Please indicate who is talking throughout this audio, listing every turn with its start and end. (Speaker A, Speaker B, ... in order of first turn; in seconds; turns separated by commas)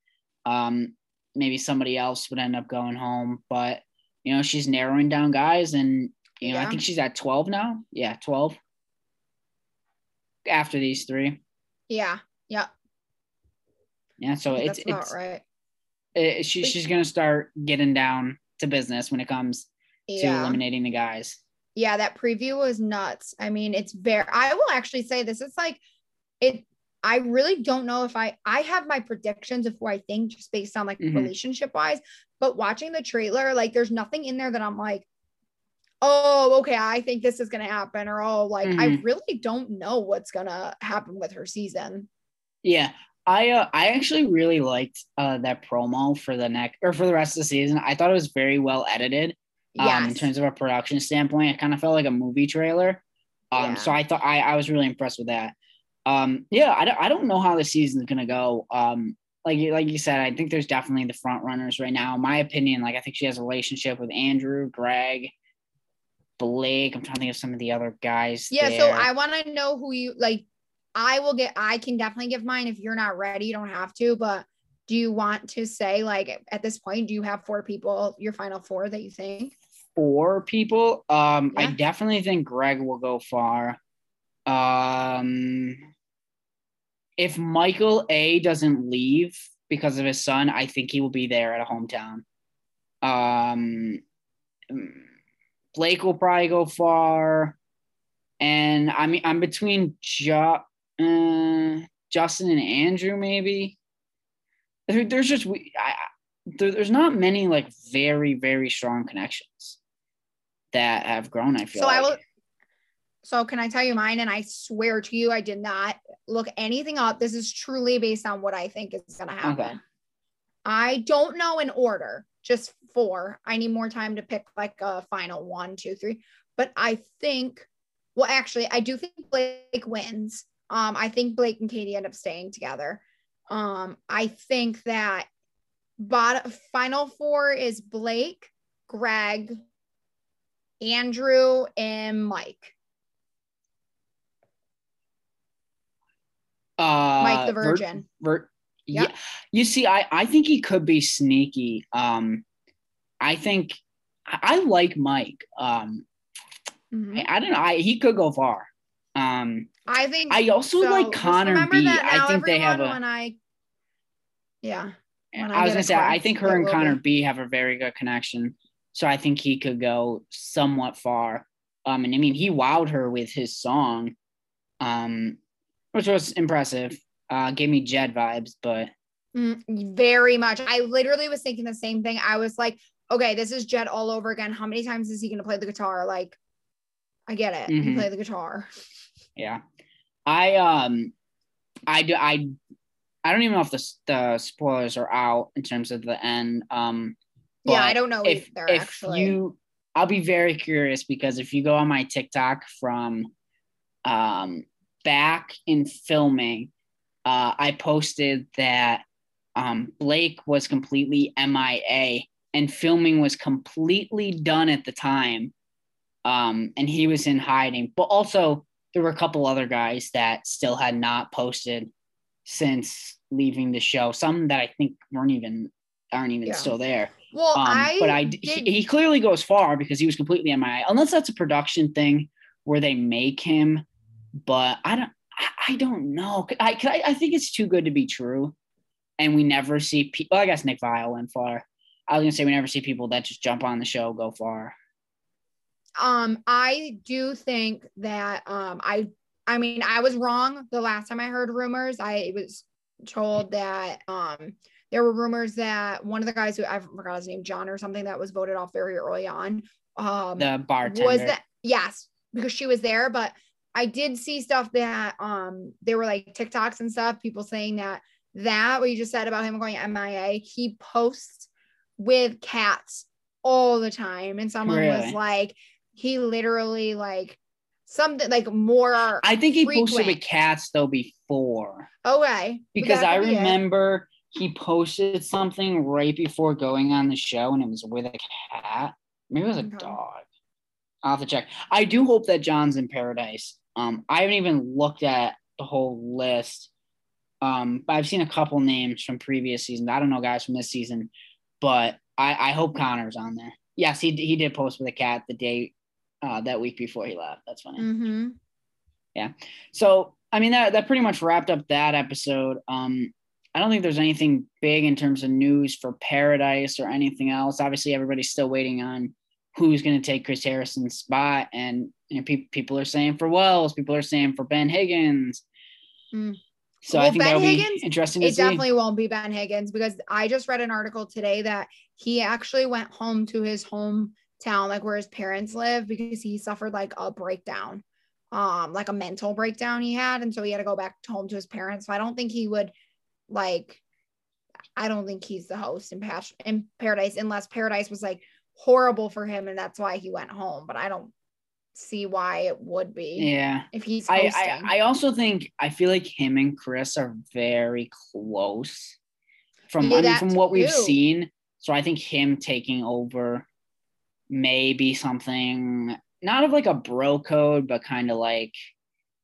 Speaker A: 0.5-8.6, Speaker B: 6.4-6.8, Speaker A: 10.5-11.4, Speaker B: 11.9-12.7, Speaker A: 14.2-15.1, Speaker B: 14.5-15.4, Speaker A: 16.1-21.4, Speaker B: 20.1-20.6, Speaker B: 21.8-25.8, Speaker B: 26.4-35.1, Speaker A: 31.0-31.3, Speaker B: 36.0-42.1, Speaker A: 38.6-39.0, Speaker A: 42.6-55.5, Speaker B: 49.8-50.3, Speaker B: 53.6-54.0, Speaker A: 56.1-65.3, Speaker A: 66.4-69.1, Speaker B: 68.5-70.5, Speaker B: 71.0-79.5, Speaker A: 80.0-83.8, Speaker A: 84.5-85.8, Speaker A: 87.2-92.2, Speaker A: 93.0-94.0, Speaker A: 94.7-95.0, Speaker A: 95.8-97.6, Speaker A: 98.4-103.8, Speaker A: 104.9-109.8, Speaker A: 110.7-112.2, Speaker B: 111.7-112.2, Speaker B: 113.2-119.8, Speaker A: 119.4-119.8, Speaker B: 120.7-135.3, Speaker B: 136.0-139.6, Speaker B: 140.8-142.7, Speaker A: 146.8-152.4, Speaker B: 147.2-148.0, Speaker A: 153.2-156.1, Speaker B: 156.9-157.3, Speaker A: 157.1-159.7, Speaker B: 159.9-163.4, Speaker A: 160.3-163.0, Speaker B: 164.6-167.0, Speaker A: 165.3-174.2, Speaker A: 174.8-175.4, Speaker A: 175.9-178.9, Speaker B: 179.3-186.4, Speaker B: 187.3-188.7, Speaker A: 187.7-188.1, Speaker A: 189.4-189.6, Speaker A: 190.3-191.1, Speaker A: 191.9-192.6, Speaker A: 193.2-203.3, Speaker B: 197.7-199.4, Speaker A: 204.1-206.7, Speaker A: 207.3-209.0, Speaker A: 209.6-215.5, Speaker A: 216.2-221.9, Speaker A: 222.4-233.8, Speaker B: 226.5-226.7, Speaker B: 227.3-228.7, Speaker A: 234.4-238.6, Speaker A: 239.2-244.8, Speaker B: 246.0-280.2, Speaker A: 260.4-261.4, Speaker A: 274.6-275.2, Speaker A: 279.2-281.9, Speaker B: 282.1-283.6, Speaker A: 282.8-290.2, Speaker B: 289.6-290.0, Speaker A: 291.0-296.7, Speaker A: 297.4-307.9, Speaker B: 307.8-308.4, Speaker A: 309.1-325.4, Speaker B: 326.1-326.4, Speaker A: 326.8-328.6, Speaker B: 326.9-342.7, Speaker B: 343.3-343.8, Speaker B: 344.8-351.1, Speaker B: 351.7-354.7, Speaker A: 353.2-359.0, Speaker A: 359.7-363.5, Speaker B: 359.8-361.0, Speaker A: 364.3-368.6